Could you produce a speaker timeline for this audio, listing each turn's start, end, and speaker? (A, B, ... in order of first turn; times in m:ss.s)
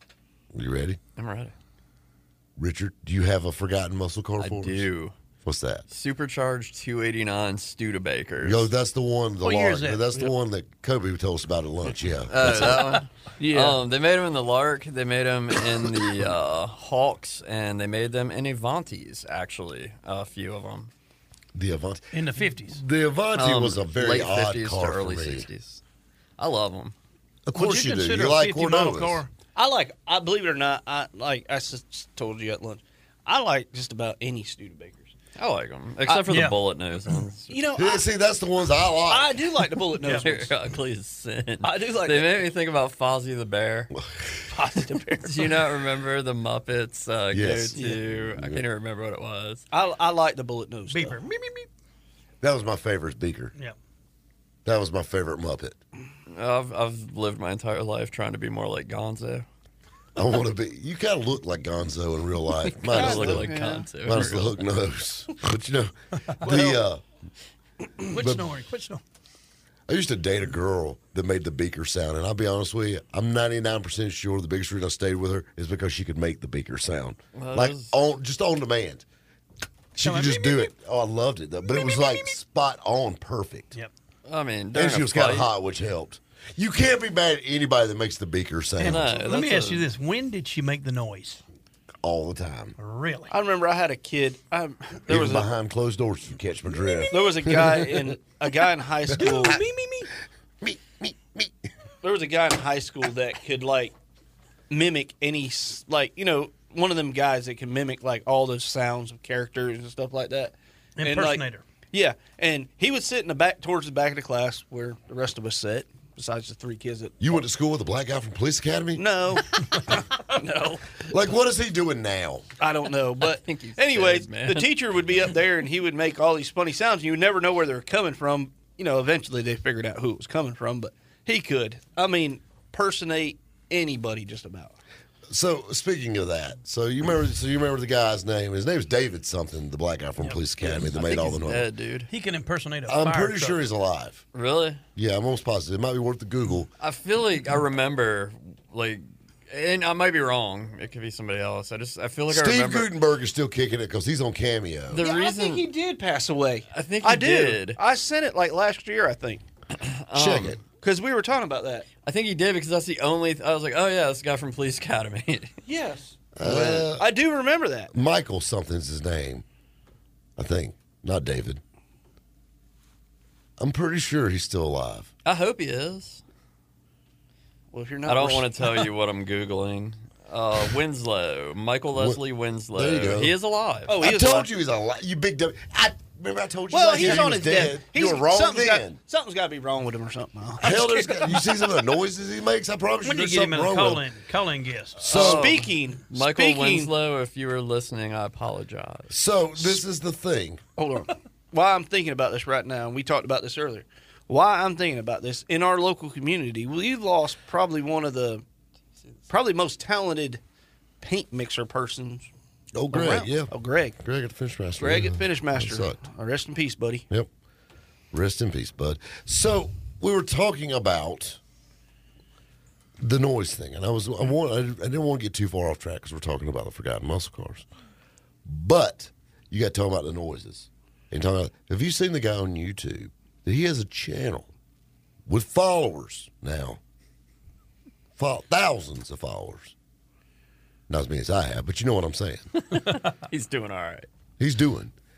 0:00.5-0:01.0 A
0:01.2-0:01.5 B
0:02.6-0:04.9 A
0:04.4-0:05.2 B
0:05.4-0:05.9 A
0:05.9-0:08.7 B
0:08.4-0:12.9 A
0:09.4-0:10.1 C
0:12.3-0:20.9 B
0:13.4-0:13.8 D
0:21.5-0:25.5 A
0:22.1-0:22.8 C
0:23.4-0:25.8 B
0:26.4-0:27.0 B
0:27.5-0:29.2 A
0:27.6-0:29.3 C
0:29.6-0:35.1 D
0:35.4-0:37.6 B
0:36.3-0:36.6 C
0:37.5-0:38.0 D
0:37.8-0:39.4 A
0:39.1-0:40.5 D
0:40.1-0:44.0 B
0:41.6-0:42.4 D
0:44.0-0:44.3 A
0:44.5-0:45.6 D
0:45.2-0:49.7 B
0:47.3-0:48.6 A
0:47.7-0:48.0 D
0:49.7-0:51.2 D
0:50.9-0:51.7 C
0:52.4-0:53.5 A
0:54.6-0:55.8 A
0:56.3-0:59.5 B
1:00.2-1:07.0 A
1:02.8-1:04.6 B
1:02.9-1:03.9 D
1:06.3-1:06.6 C
1:08.1-1:09.0 C
1:08.2-1:08.5 A
1:09.9-1:19.0 A
1:17.4-1:18.0 B
1:20.0-1:23.8 A
1:20.0-1:20.7 C
1:21.7-1:22.3 C
1:24.3-1:25.5 B
1:24.7-1:29.1 A
1:28.8-1:31.4 C
1:28.8-1:29.9 B
1:32.0-1:32.8 A
1:32.8-1:33.3 C
1:33.3-1:35.5 D
1:35.1-1:37.5 A
1:37.1-1:39.6 D
1:39.1-1:40.1 C
1:39.2-1:39.6 A
1:40.6-1:41.6 A
1:42.0-1:44.0 D
1:44.7-1:57.2 D
1:51.0-1:51.7 C
1:57.2-1:59.0 A
1:59.0-2:00.9 D
2:01.0-2:02.5 A
2:02.6-2:14.8 D
2:03.2-2:04.7 B
2:15.3-2:21.7 A
2:20.6-2:22.1 B
2:22.1-2:23.6 C
2:22.9-2:24.2 A
2:24.3-2:24.8 B
2:25.0-2:26.7 A
2:26.8-2:32.9 B
2:32.3-2:35.0 A
2:34.9-2:35.6 B
2:34.9-2:39.4 D
2:36.7-2:37.8 B
2:39.7-2:40.6 B
2:40.1-2:40.6 A
2:40.8-2:41.9 D
2:42.0-2:45.5 B
2:45.6-2:47.9 D
2:46.4-2:47.1 A
2:47.9-2:49.4 A
2:50.4-2:51.6 A
2:53.6-2:55.1 A
2:55.2-2:56.2 B
2:57.7-2:58.7 D
2:58.1-3:04.0 B
3:02.0-3:02.2 A
3:02.7-3:03.3 A
3:03.9-3:04.5 D
3:04.0-3:09.0 A
3:06.7-3:11.8 D
3:10.6-3:14.1 A
3:13.0-3:15.2 C
3:15.0-3:15.5 A
3:15.1-3:16.9 D
3:15.1-3:19.2 B
3:19.1-3:20.6 A
3:20.8-3:28.4 D
3:29.3-3:30.4 D
3:31.0-3:32.3 D
3:32.7-3:36.0 A
3:32.9-3:34.0 D
3:34.8-3:37.1 D
3:38.1-3:41.4 A
3:43.0-3:47.7 A
3:48.4-3:54.5 A
3:55.3-3:56.8 A
3:58.2-3:59.8 A
4:00.9-4:02.5 A
4:02.6-4:04.1 B
4:04.4-4:04.9 A